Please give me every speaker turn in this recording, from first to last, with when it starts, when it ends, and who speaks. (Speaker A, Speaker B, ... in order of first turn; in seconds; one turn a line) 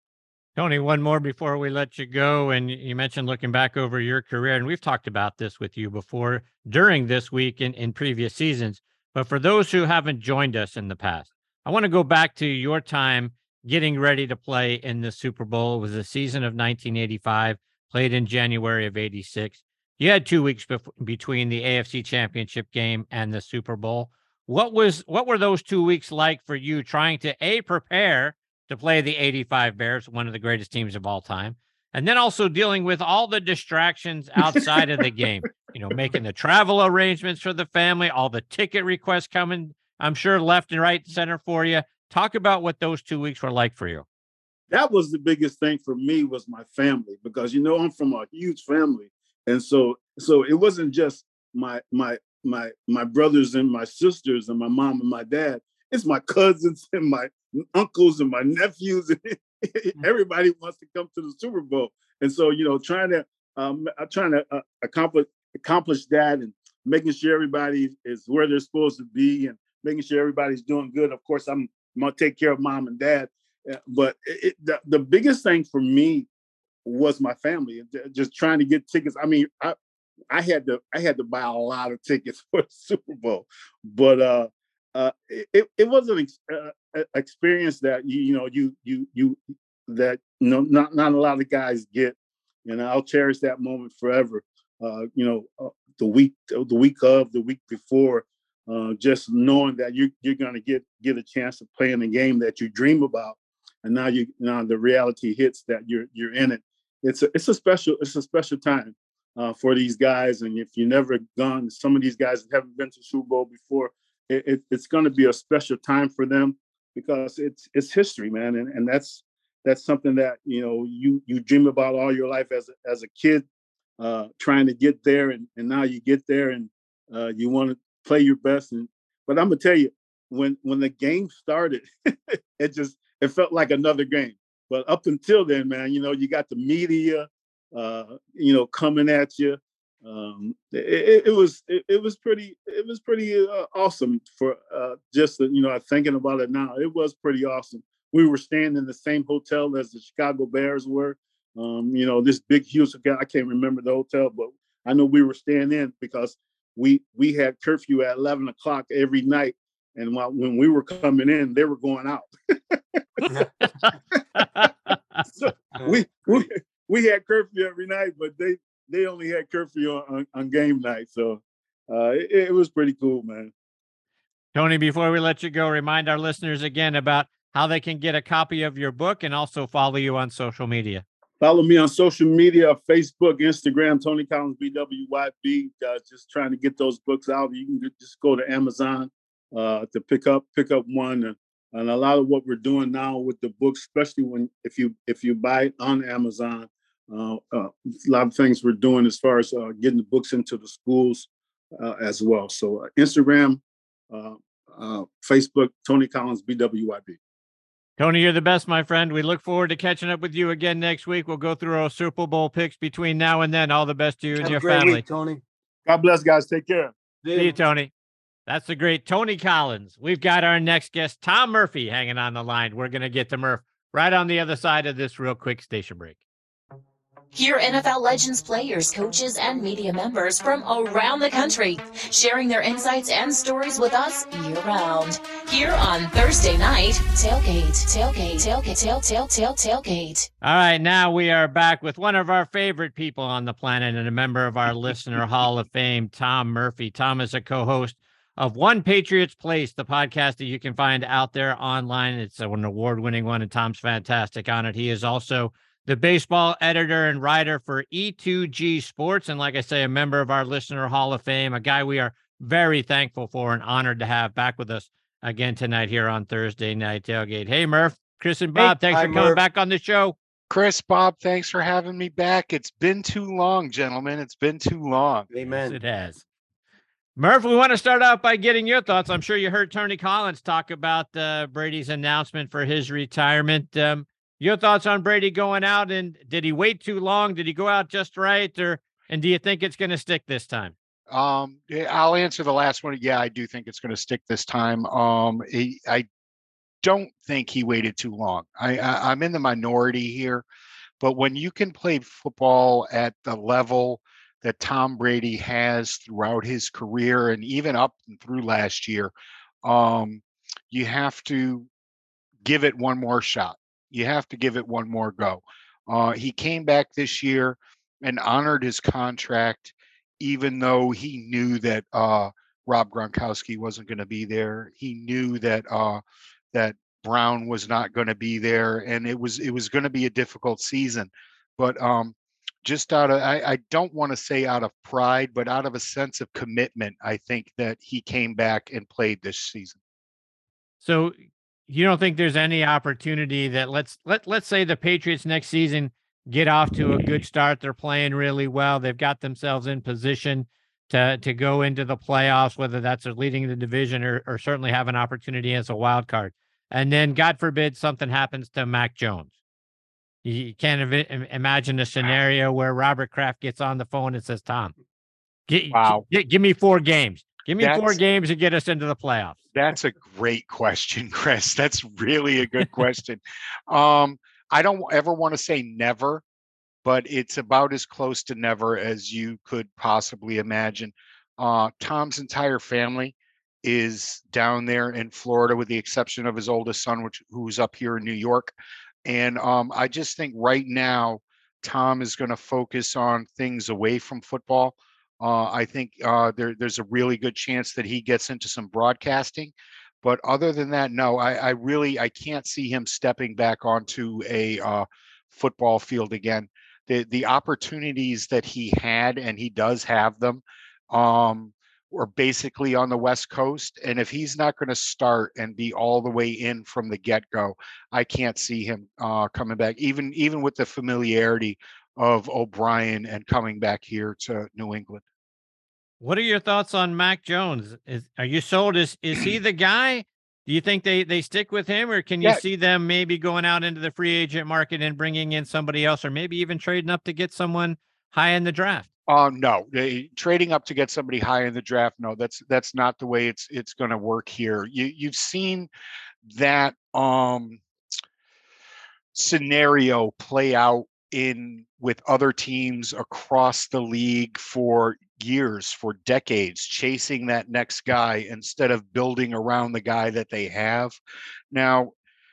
Speaker A: 0.6-44.0
Speaker B: 44.7-76.3
Speaker B: 76.8-79.8
Speaker B: 80.3-123.5
Speaker B: 124.0-131.9
Speaker B: 132.6-163.3
Speaker A: 164.4-164.7
Speaker B: 165.4-173.5
Speaker C: 165.8-166.4
Speaker A: 174.5-181.0
Speaker B: 181.4-207.2
Speaker A: 208.0-215.0
Speaker C: 214.4-215.4
Speaker B: 215.9-216.9
Speaker C: 217.2-217.6
Speaker A: 217.3-217.9
Speaker A: 218.5-226.2
Speaker D: 227.3-240.3
Speaker A: 240.4-270.2
Speaker C: 268.6-269.4
Speaker E: 270.5-275.3
Speaker C: 275.3-275.8
Speaker A: 275.4-276.2
Speaker A: 277.2-290.7
Speaker E: 291.1-296.1
Speaker E: 296.8-300.4
Speaker E: 301.0-309.1
Speaker E: 309.6-311.7
Speaker E: 312.4-326.0
Speaker E: 326.5-339.8
Speaker A: 340.8-341.1
Speaker A: 341.7-359.3
Speaker A: 360.2-364.7
Speaker A: 365.5-369.4
Speaker E: 365.7-366.1
Speaker E: 367.6-368.0
Speaker E: 369.5-376.2
Speaker E: 376.8-388.5
Speaker E: 389.1-425.0
Speaker A: 426.0-438.9
Speaker E: 439.1-445.7
Speaker E: 446.3-447.6
Speaker E: 449.1-461.0
Speaker E: 461.5-461.9